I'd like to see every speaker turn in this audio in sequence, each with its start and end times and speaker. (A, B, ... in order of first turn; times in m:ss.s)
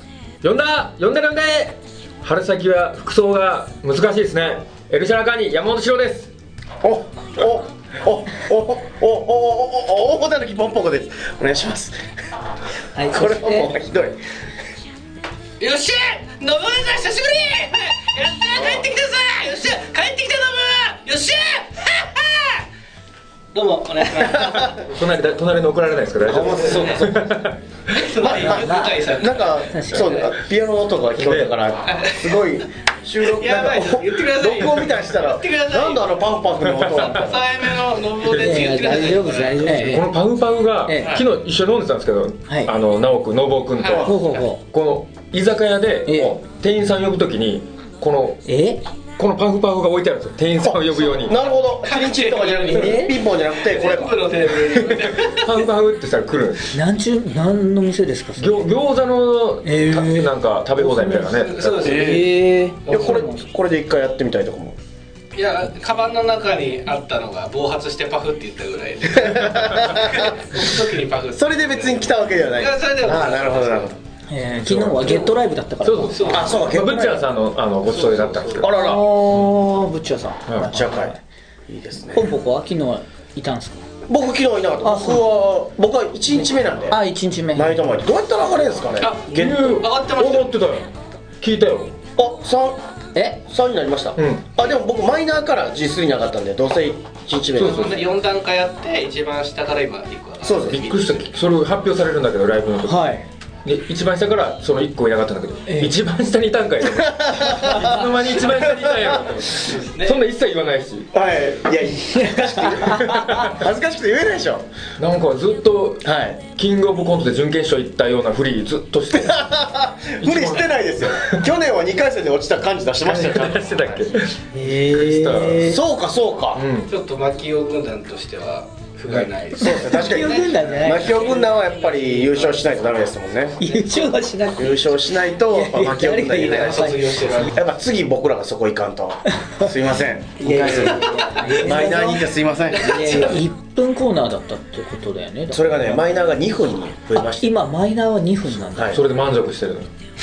0:00.4-0:06.3 A
0:06.8-0:12.0 B
0:12.9-0:13.7 C
0:13.0-0:14.2 B
0:15.6-0:22.6 D
0:18.5-0:18.8 B
0:23.5-0:24.8 D
0:24.8-0:28.0 A
0:26.2-0:27.4 B
0:26.5-0:27.1 D
0:27.9-0:30.3 D
0:28.2-0:37.7 B
0:28.3-0:29.1 C
0:29.7-0:30.2 C
0:31.2-0:31.5 A
0:31.8-0:32.4 D
0:33.2-0:36.4 D
0:36.6-0:37.2 A
0:37.0-0:39.9 D
0:38.2-0:48.4 A
0:38.3-0:40.1 C
0:40.8-0:41.2 C
0:41.0-0:41.2 D
0:42.5-0:42.7 C
0:43.8-0:44.5 D
0:44.0-0:44.6 C
0:46.0-0:46.4 C
0:48.4-0:48.8 C
0:49.2-0:51.4 A
0:50.6-0:54.4 B
0:51.8-0:55.6 D
0:52.7-0:53.2 C
0:54.9-0:56.7 A
0:56.7-0:58.7 C
0:58.4-1:02.0 A
0:59.6-1:01.3 C
1:01.0-1:02.3 D
1:01.8-1:03.5 C
1:01.9-1:02.3 B
1:02.8-1:04.8 B
1:05.3-1:13.9 D
1:09.3-1:10.3 B
1:11.3-1:14.0 B
1:14.3-1:16.5 C
1:14.5-1:18.7 A
1:16.1-1:16.6 D
1:16.3-1:17.3 B
1:17.8-1:18.6 D
1:18.6-1:19.0 B
1:18.7-1:21.2 C
1:20.5-1:20.7 A
1:20.7-1:21.1 B
1:21.7-1:22.2 B
1:22.1-1:23.8 C
1:24.1-1:27.0 B
1:24.8-1:25.3 C
1:26.9-1:27.7 C
1:27.5-1:29.8 B
1:29.0-1:30.7 D
1:29.3-1:30.9 A
1:31.4-1:31.9 A
1:32.2-1:32.8 B
1:33.1-1:33.4 C
1:33.5-1:37.9 B
1:34.2-1:34.5 A
1:37.5-1:38.1 A
1:37.6-1:41.3 D
1:40.4-1:40.9 B
1:40.7-1:43.1 A
1:42.8-1:43.2 C
1:43.6-1:51.1 A
1:45.6-1:45.9 C
1:47.0-1:47.9 B
1:47.6-1:48.0 C
1:48.5-1:49.2 B
1:49.7-1:50.2 D
1:51.1-1:54.7 B
1:52.1-1:53.4 C
1:52.9-1:53.5 A
1:55.0-1:59.6 A
1:56.0-1:56.4 B
1:59.1-2:04.2 B
2:00.2-2:01.4 A
2:03.2-2:05.7 A
2:04.5-2:05.8 C
2:05.6-2:06.6 B
2:06.5-2:06.9 A
2:06.9-2:13.0 D
2:09.6-2:11.1 C
2:09.6-2:13.6 B
2:13.6-2:14.2 D
2:13.6-2:17.3 C
2:14.6-2:23.4 B
2:16.3-2:17.6 D
2:20.4-2:26.2 C
2:20.7-2:21.5 D
2:22.8-2:23.3 D
2:25.5-2:27.5 B
2:27.1-2:29.0 C
2:28.6-2:29.0 B
2:28.9-2:29.9 A